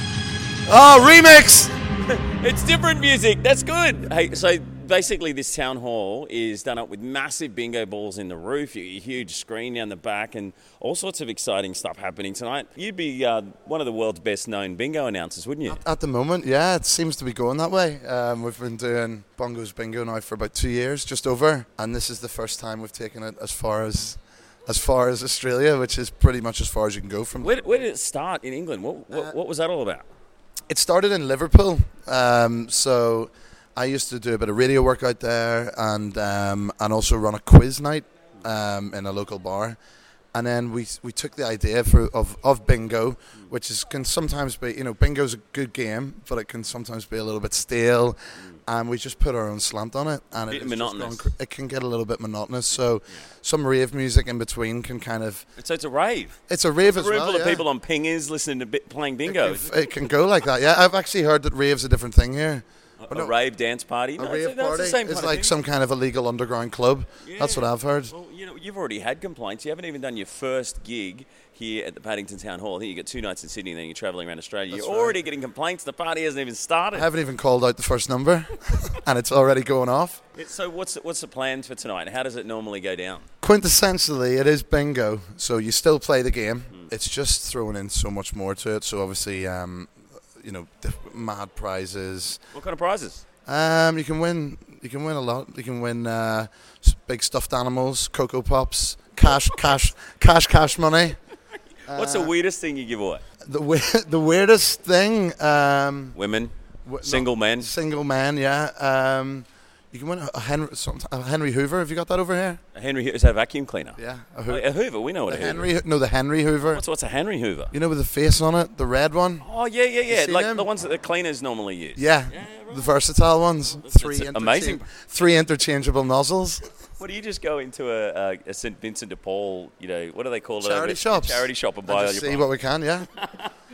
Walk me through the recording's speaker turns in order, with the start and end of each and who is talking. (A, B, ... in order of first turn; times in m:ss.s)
0:00.6-0:01.8 A
0:02.1-0:15.8 B
0:15.7-0:27.9 A
0:27.4-0:30.1 B
0:30.7-0:39.8 A
0:40.3-0:55.4 A
0:50.5-0:51.3 B
0:55.6-0:59.9 B
0:56.5-0:57.6 A
0:59.2-1:03.3 A
1:03.0-1:05.6 B
1:04.2-1:08.1 A
1:07.2-1:17.1 B
1:14.7-1:15.2 A
1:16.9-1:20.2 A
1:20.3-1:23.3 B
1:23.4-1:32.4 A
1:32.5-1:33.2 B
1:33.4-1:41.2 A
1:41.9-1:42.3 A
1:41.9-1:43.2 B
1:43.4-1:46.2 A
1:46.2-1:47.7 B
1:46.8-1:52.6 A
1:52.8-1:55.7 B
1:54.0-1:54.6 A
1:55.3-1:56.8 A
1:56.7-1:57.7 B
1:57.7-1:59.4 A
1:59.4-2:02.9 B
2:00.1-2:00.7 A
2:02.0-2:06.7 A
2:03.8-2:04.8 B
2:07.0-2:12.5 B
2:10.6-2:13.1 A
2:13.2-2:13.5 B